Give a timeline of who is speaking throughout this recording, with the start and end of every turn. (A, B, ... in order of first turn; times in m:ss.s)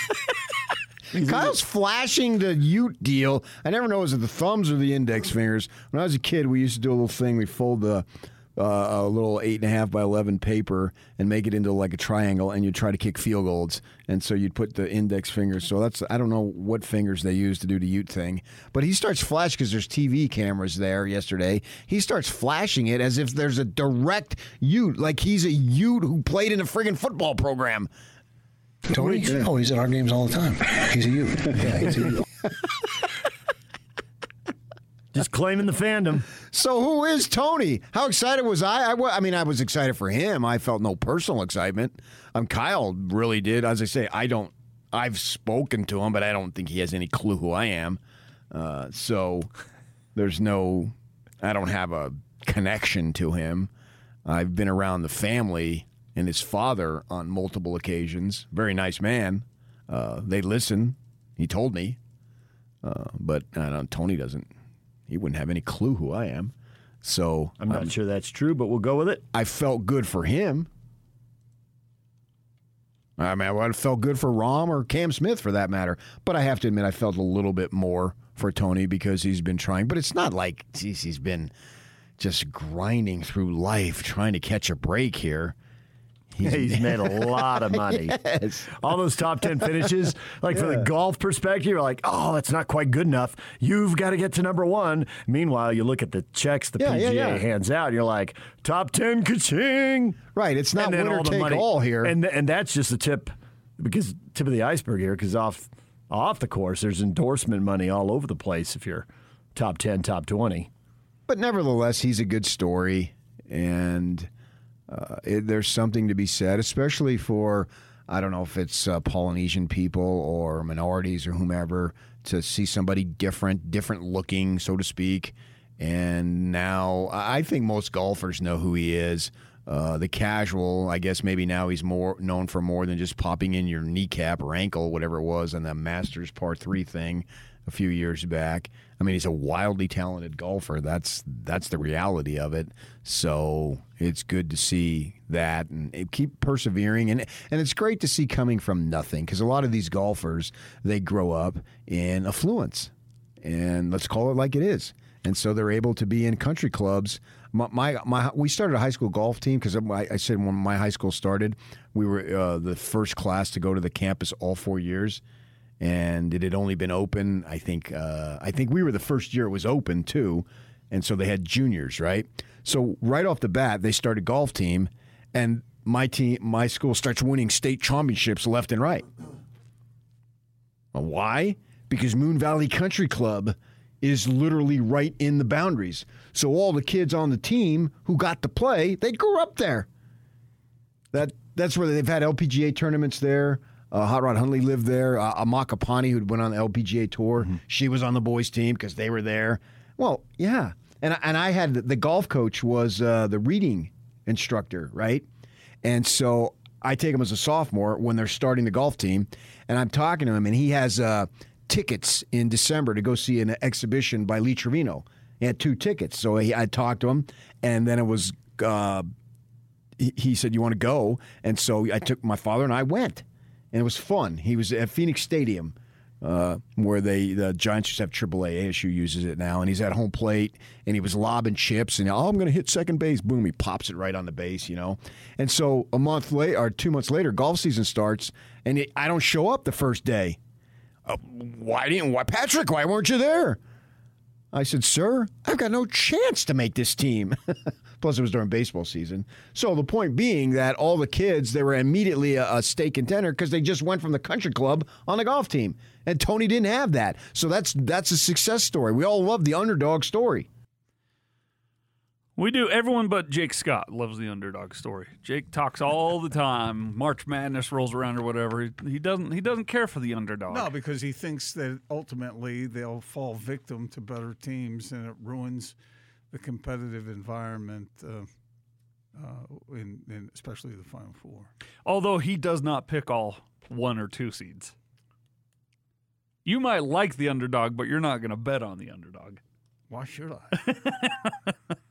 0:01.1-0:27.9 A
0:28.9-0:32.2 B
0:29.0-0:29.4 A
0:35.1-0:36.2 C
0:36.4-0:48.0 A
0:48.5-0:49.5 A
0:50.1-0:53.7 A
0:54.2-1:02.0 A
1:02.8-1:04.5 A
1:05.1-1:07.9 A
1:07.6-1:09.2 C
1:09.3-1:10.7 A
1:13.2-1:21.5 A
1:22.2-1:25.6 A
1:26.4-1:28.7 A
1:26.4-1:40.2 C
1:30.5-1:30.9 A
1:36.8-1:37.4 A
1:40.3-1:42.1 A
1:40.8-1:50.7 C
1:51.3-1:54.3 A
1:54.9-2:45.2 A
2:45.8-2:59.0 A
3:00.9-3:09.9 A
3:11.1-3:25.2 A
3:25.8-3:39.1 A
3:40.0-4:00.4 A
4:01.0-4:03.6 A
4:04.5-4:20.5 A
4:22.4-4:30.7 D
4:30.5-4:35.7 E
4:36.3-4:38.3 E
4:39.1-4:41.5 E
4:41.8-4:44.7 D
4:46.4-4:49.4 D
4:49.9-4:50.6 E
4:50.6-4:51.5 D